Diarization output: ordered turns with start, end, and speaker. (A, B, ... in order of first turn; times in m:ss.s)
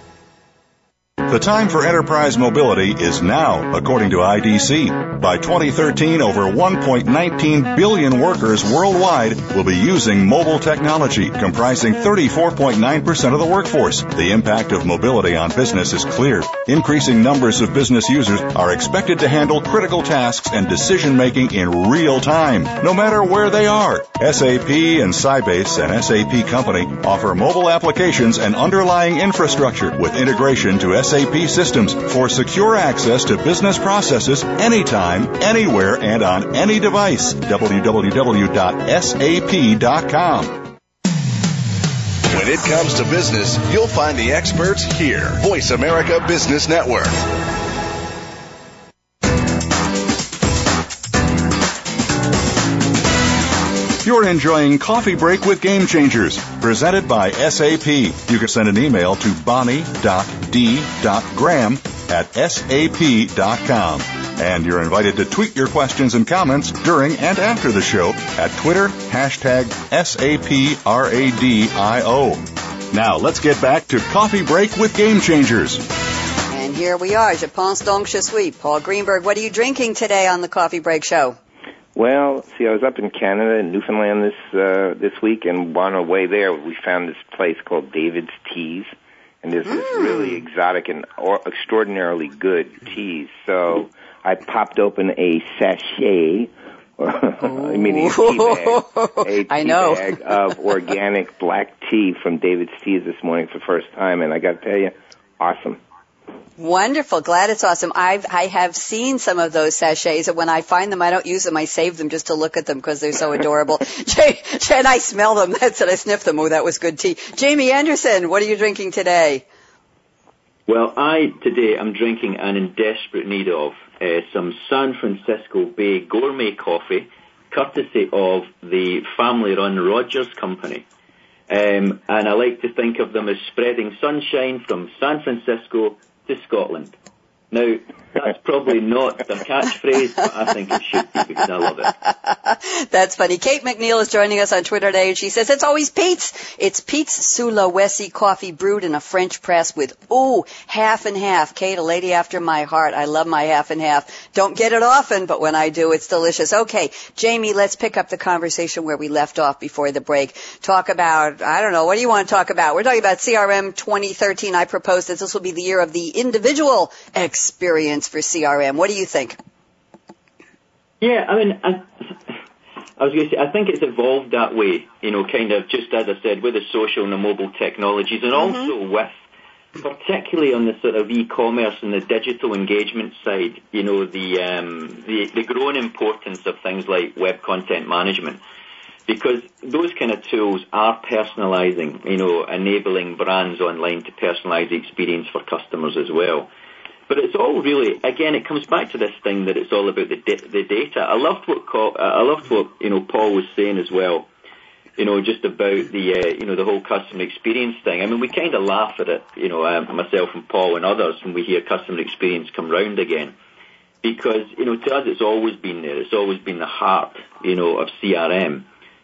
0:01.2-0:40.7 A
0:42.3-0:47.2 B
0:54.0-1:15.8 A
1:16.5-1:21.4 C
1:22.0-1:28.9 D
1:29.4-1:45.8 D
1:37.4-1:40.0 C
1:46.6-1:59.4 C
2:00.7-2:10.9 E
2:11.5-2:17.0 E
2:17.5-2:21.9 E
2:22.3-2:49.4 C
2:51.0-2:52.4 E
2:53.0-2:59.1 E
2:59.8-3:08.4 E
3:09.1-3:16.5 E
3:17.1-3:24.3 E
3:25.0-3:33.4 E
3:34.0-3:38.7 E